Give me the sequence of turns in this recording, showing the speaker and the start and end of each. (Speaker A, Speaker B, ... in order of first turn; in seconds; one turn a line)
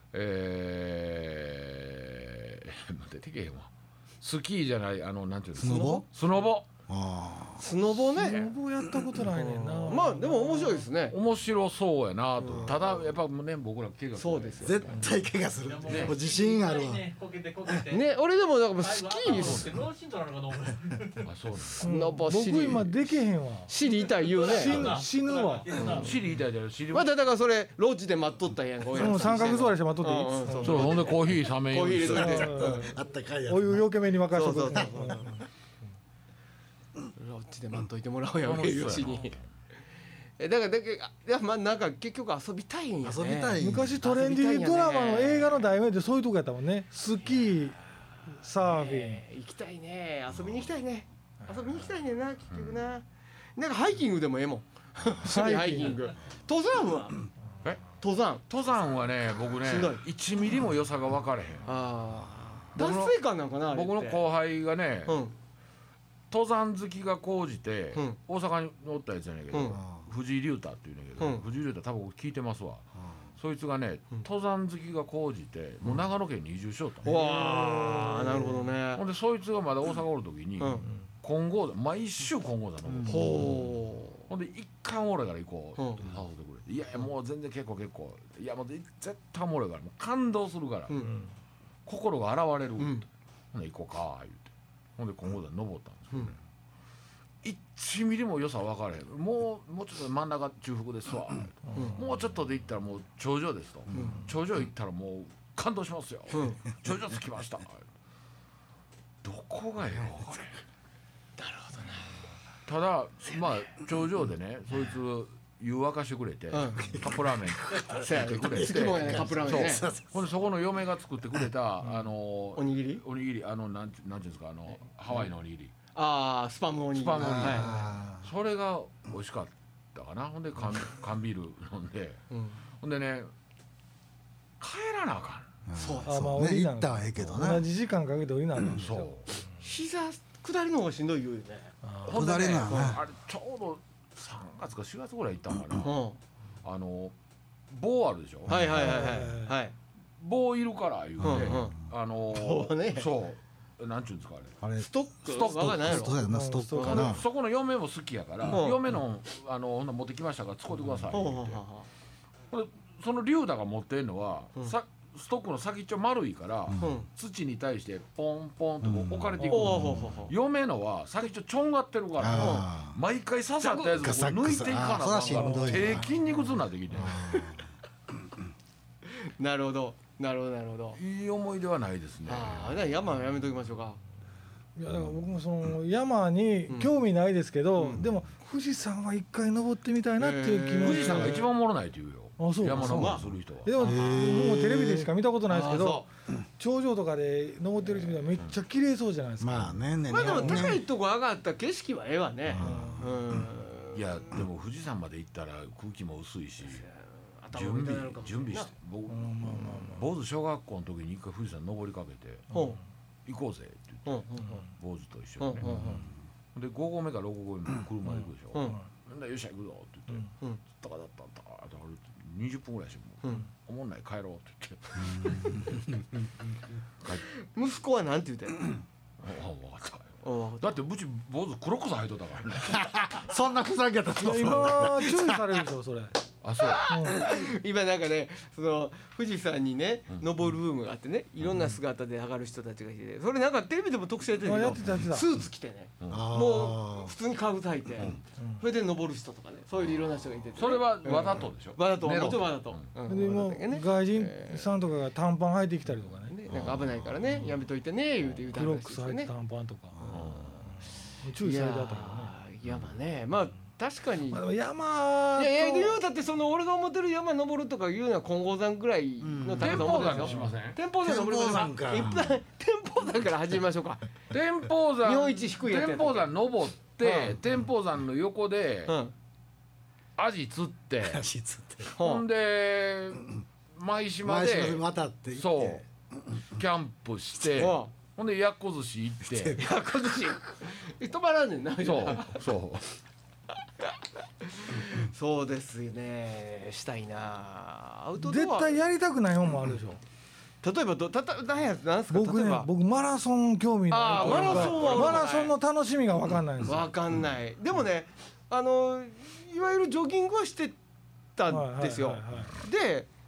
Speaker A: 0.1-3.7
Speaker A: 4.2-6.7
Speaker B: 5.5-6.0
Speaker C: 5.6-6.0
Speaker B: 6.9-7.6
Speaker C: 7.6-8.6
Speaker D: 8.1-10.8
Speaker C: 9.3-11.2
Speaker A: 11.1-15.1
Speaker C: 12.4-12.7
Speaker B: 12.5-12.8
Speaker C: 14.2-15.0
Speaker B: 14.6-17.1
Speaker E: 15.6-18.1
Speaker A: 15.9-16.2
Speaker C: 17.9-19.7
Speaker E: 18.8-21.3
Speaker A: 19.3-19.6
Speaker A: 21.2-21.8
Speaker C: 21.8-23.1
Speaker D: 21.8-23.7
Speaker C: 23.7-25.0
Speaker E: 23.9-26.1
Speaker D: 24.4-25.7
Speaker A: 25.7-27.1
Speaker C: 25.9-26.1
Speaker C: 26.9-32.8
Speaker D: 28.9-31.0
Speaker A: 30.6-32.8
Speaker B: 32.1-33.9
Speaker D: 32.1-35.4
Speaker C: 34.3-35.3
Speaker C: 37.1-39.4
Speaker A: 38.4-39.4
Speaker C: 40.4-45.6
Speaker B: 43.0-44.0
Speaker D: 43.6-49.2
Speaker C: 48.6-53.0
Speaker A: 52.5-52.8
Speaker C: 53.6-57.3
Speaker D: 55.2-56.1
Speaker C: 58.0-58.5
Speaker A: 58.5-61.7
Speaker C: 59.6-60.0
Speaker C: 61.6-64.2
Speaker A: 62.8-63.1
Speaker A: 63.7-65.2
Speaker C: 65.1-65.3
Speaker A: 66.3-77.2
Speaker C: 69.5-69.8
Speaker B: 69.7-70.0
Speaker C: 71.2-71.4
Speaker C: 77.0-79.0
Speaker D: 77.1-78.5
Speaker A: 78.9-83.7
Speaker C: 80.6-80.9
Speaker B: 82.9-83.6
Speaker C: 83.1-84.2
Speaker A: 84.3-91.1
Speaker C: 85.8-86.0
Speaker C: 90.9-91.1
Speaker A: 91.9-96.4
Speaker C: 92.8-93.0
Speaker A: 97.4-107.8
Speaker D: 101.7-102.0
Speaker C: 101.8-102.0
Speaker C: 103.9-104.2
Speaker C: 106.3-106.6
Speaker A: 109.2-110.5
Speaker C: 111.4-112.1
Speaker A: 112.7-125.7
Speaker C: 116.5-117.0
Speaker B: 116.8-120.1
Speaker C: 117.9-119.9
Speaker C: 122.6-123.0
Speaker C: 125.9-127.8
Speaker A: 126.9-132.2
Speaker B: 127.2-128.3
Speaker C: 132.3-132.6
Speaker A: 132.8-133.3
Speaker A: 134.6-135.5
Speaker B: 135.7-137.7
Speaker C: 135.8-136.1
Speaker D: 136.1-139.4
Speaker A: 138.7-139.2
Speaker C: 139.6-141.7
Speaker D: 141.8-142.9
Speaker A: 142.0-145.9
Speaker B: 142.1-143.0
Speaker C: 145.8-146.2
Speaker A: 146.6-147.1
Speaker A: 147.7-148.9
Speaker C: 148.5-149.7
Speaker D: 148.7-149.5
Speaker A: 150.2-154.6
Speaker B: 151.2-151.7
Speaker C: 151.3-151.8
Speaker C: 152.3-153.1
Speaker B: 154.6-154.9
Speaker C: 154.8-156.2
Speaker A: 155.2-156.2
Speaker B: 155.4-157.2
Speaker D: 156.2-157.1
Speaker C: 156.7-157.1
Speaker A: 156.8-161.6
Speaker C: 158.5-158.8
Speaker C: 161.1-161.9
Speaker A: 162.5-177.5
Speaker B: 166.7-166.9
Speaker C: 166.8-167.1
Speaker B: 168.8-170.1
Speaker D: 169.4-169.8
Speaker C: 169.5-170.3
Speaker B: 172.2-173.0
Speaker C: 172.3-172.7
Speaker C: 173.6-174.1
Speaker B: 174.0-176.3
Speaker D: 175.3-176.0
Speaker B: 176.9-177.6
Speaker C: 177.2-177.5
Speaker C: 179.1-181.0
Speaker A: 180.9-182.9
Speaker C: 182.3-184.0
Speaker D: 184.8-191.5
Speaker C: 186.7-186.9
Speaker C: 187.8-188.0
Speaker C: 190.2-191.5
Speaker A: 190.8-193.7
Speaker D: 192.4-193.1
Speaker C: 192.8-194.3
Speaker D: 193.6-196.0
Speaker B: 193.8-195.1
Speaker C: 195.5-196.1
Speaker D: 196.6-200.6
Speaker C: 198.0-198.4
Speaker B: 199.4-200.8
Speaker C: 200.1-204.2
Speaker B: 202.5-203.2
Speaker D: 202.6-203.1
Speaker A: 203.9-206.8
Speaker C: 206.6-208.7
Speaker A: 207.5-212.6
Speaker D: 209.1-210.1
Speaker C: 209.5-209.8
Speaker D: 212.5-212.8
Speaker C: 212.5-212.8
Speaker A: 213.3-215.6
Speaker C: 214.1-214.7
Speaker C: 215.4-216.0
Speaker B: 215.6-216.1
Speaker A: 216.6-225.7
Speaker C: 218.5-218.8
Speaker B: 225.0-225.8
Speaker C: 227.5-228.7
Speaker A: 229.2-233.0
Speaker C: 230.2-230.7
Speaker B: 232.7-235.4
Speaker D: 234.2-236.1
Speaker A: 236.4-236.9
Speaker C: 236.6-254.7
Speaker D: 236.9-237.2
Speaker A: 241.4-241.7
Speaker D: 244.4-245.3
Speaker A: 246.0-246.3
Speaker B: 246.1-247.1
Speaker D: 248.4-248.6
Speaker A: 250.5-252.8
Speaker D: 253.1-256.3
Speaker C: 256.3-259.3
Speaker A: 256.5-257.6
Speaker D: 258.5-260.0
Speaker A: 260.1-260.7
Speaker D: 261.2-262.3
Speaker C: 261.4-264.4
Speaker A: 262.7-262.9
Speaker D: 264.3-266.0
Speaker C: 265.4-274.1
Speaker B: 269.2-270.0
Speaker A: 269.6-270.8
Speaker D: 270.2-270.5
Speaker B: 271.0-272.3
Speaker A: 274.3-279.0
Speaker C: 275.0-276.3
Speaker C: 277.0-277.4
Speaker C: 278.9-279.1
Speaker A: 280.2-281.2
Speaker B: 281.0-281.9
Speaker C: 282.0-282.2
Speaker A: 282.0-284.8
Speaker B: 284.2-286.5
Speaker A: 285.4-285.9
Speaker A: 286.5-289.6
Speaker C: 287.6-287.9
Speaker B: 289.3-289.6
Speaker C: 289.6-292.4
Speaker A: 291.8-292.9
Speaker C: 294.4-298.8
Speaker D: 298.2-300.0
Speaker C: 300.6-302.7
Speaker D: 302.1-306.9
Speaker C: 303.9-305.5
Speaker A: 304.1-305.3
Speaker C: 306.6-310.8
Speaker C: 311.4-313.1
Speaker D: 311.5-312.6